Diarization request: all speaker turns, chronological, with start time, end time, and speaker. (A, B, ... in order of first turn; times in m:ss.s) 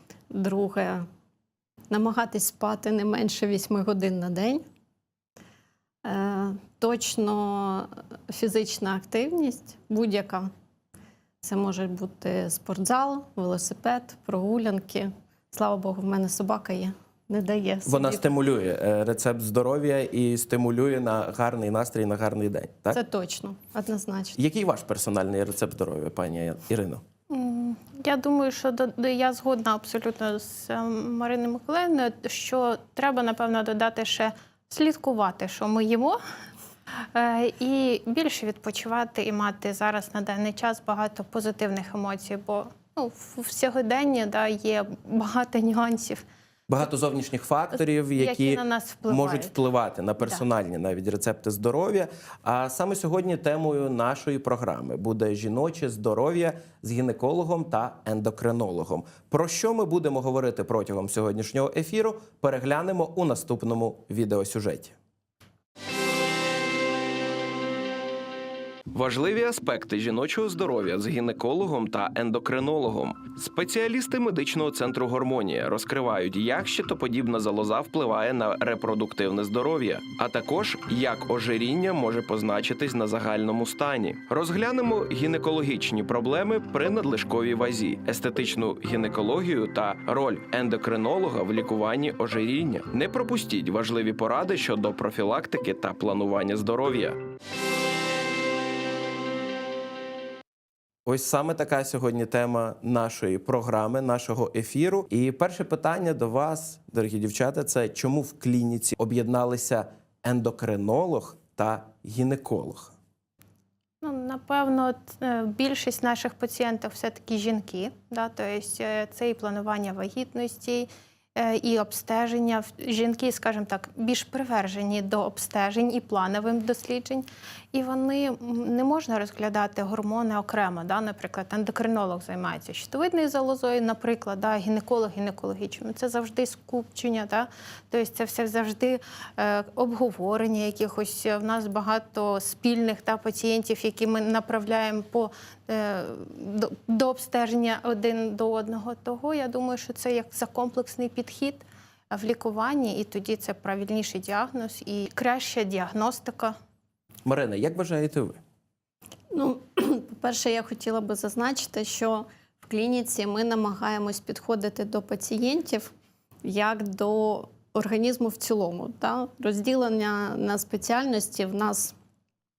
0:00.3-0:01.1 A
0:01.9-0:04.6 A
0:06.0-0:10.5 A
0:11.4-0:18.2 A
0:17.9-0:23.0 B
0:22.9-0:24.4 A
0:24.4-0:27.0 B
0:27.3-0:36.2 C
0:37.1-0:46.2 C
0:46.7-1:05.0 B
0:48.2-0:49.5 C
1:08.9-1:37.2 B
1:41.1-1:52.9 B
1:54.0-2:36.6 C
2:37.2-2:38.4 B
2:39.3-2:45.9 A
2:46.4-2:51.9 A